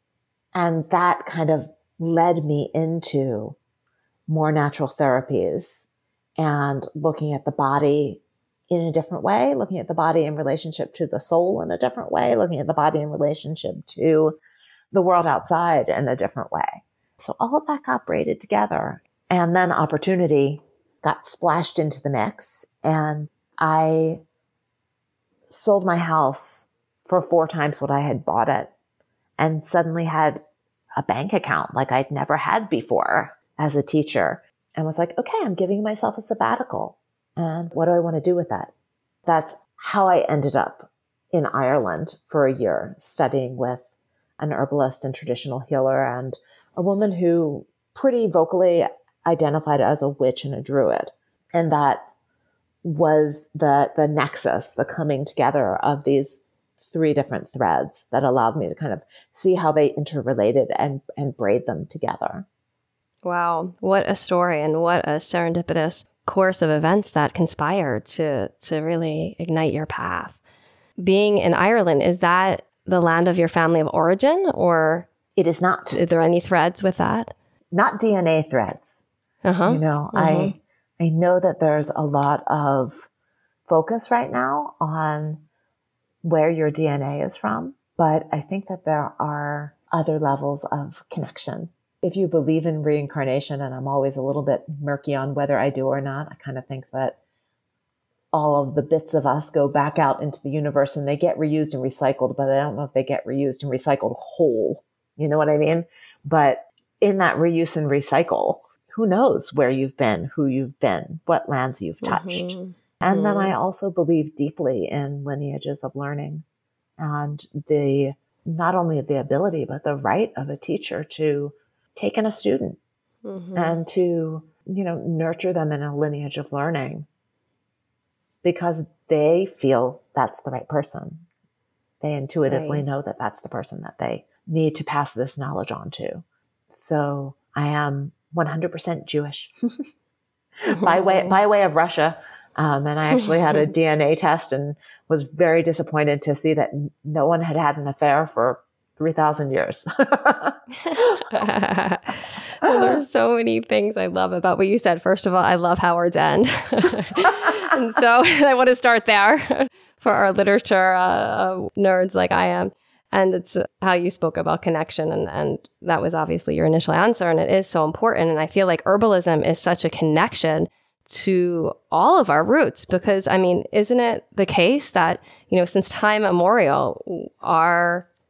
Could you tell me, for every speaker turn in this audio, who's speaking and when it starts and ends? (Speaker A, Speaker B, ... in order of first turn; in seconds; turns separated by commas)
Speaker A: 0.5-3.6, Speaker A: 4.3-14.4, Speaker A: 14.9-24.2, Speaker A: 25.5-28.7, Speaker A: 29.4-30.4, Speaker A: 31.0-38.7, Speaker A: 39.2-52.1, Speaker A: 52.8-62.5, Speaker B: 63.2-70.4, Speaker B: 71.0-75.1, Speaker A: 75.3-76.0, Speaker B: 75.9-77.3, Speaker A: 77.7-79.0, Speaker B: 79.4-80.5, Speaker A: 79.7-83.1, Speaker A: 83.7-85.4, Speaker A: 86.2-97.2, Speaker A: 98.3-116.4, Speaker B: 112.0-113.5, Speaker A: 117.0-122.8, Speaker B: 123.2-123.8, Speaker A: 123.5-127.1, Speaker A: 128.4-131.2, Speaker A: 132.0-139.8, Speaker B: 132.5-132.8, Speaker A: 140.6-151.2, Speaker B: 140.8-141.3, Speaker B: 150.8-178.1, Speaker A: 152.6-153.0